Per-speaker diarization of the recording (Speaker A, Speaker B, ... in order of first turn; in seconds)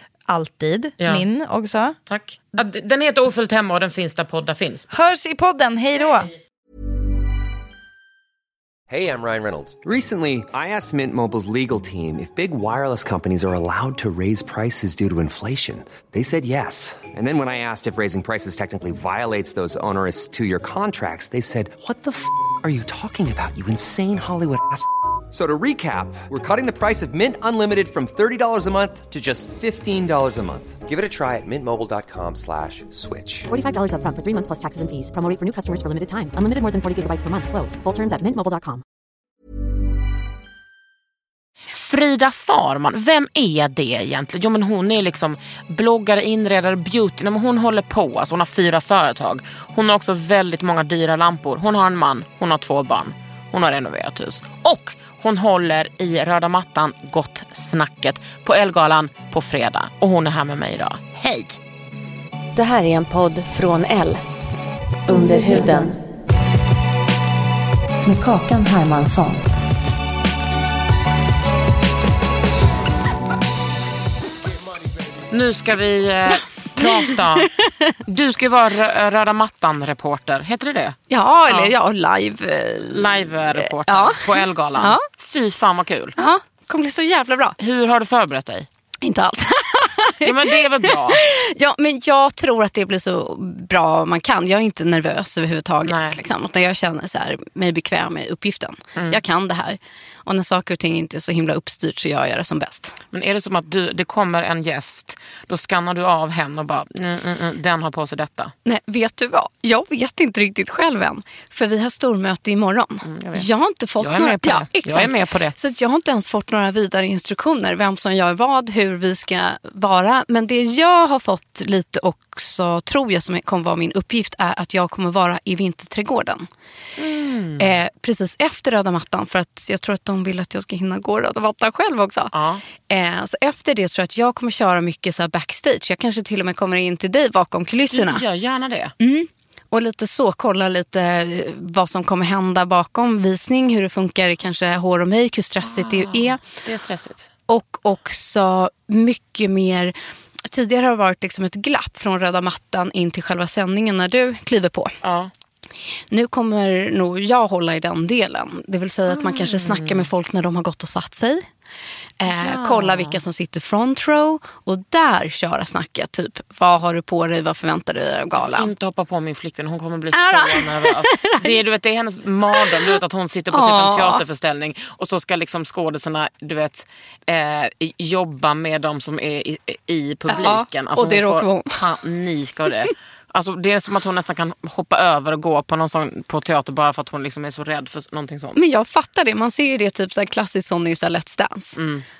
Speaker A: 0.3-2.0, 4.9-6.3
Speaker B: 1.0-1.2, 2.1-4.9, 41.7-61.6, 75.3-77.5, 78.0-81.0, 81.5-81.7, 82.9-86.2, 87.6-88.7, 90.2-91.2, 95.8-96.2, 103.1-108.5, 113.0-113.5, 114.0-115.5, 127.0-127.7, 132.3-132.7, 137.9-138.9, 145.6-147.3, 155.0-155.3, 159.1-160.1, 162.3-163.2, 168.3-188.6, 191.8-192.1
Speaker C: 8.9-33.5
Speaker D: 33.5-38.8
Speaker E: 62.5-64.2, 65.1-66.0, 68.0-69.5
Speaker F: 76.8-77.5, 81.1-85.0, 86.2-87.6, 89.0-103.0, 108.7-126.5, 127.6-138.2, 139.0-146.4, 147.5-149.9, 150.5-154.9, 156.1-161.4, 162.2-168.7, 170.1-171.6, 172.6-172.9, 173.5-174.2, 180.3-181.8, 188.6-191.8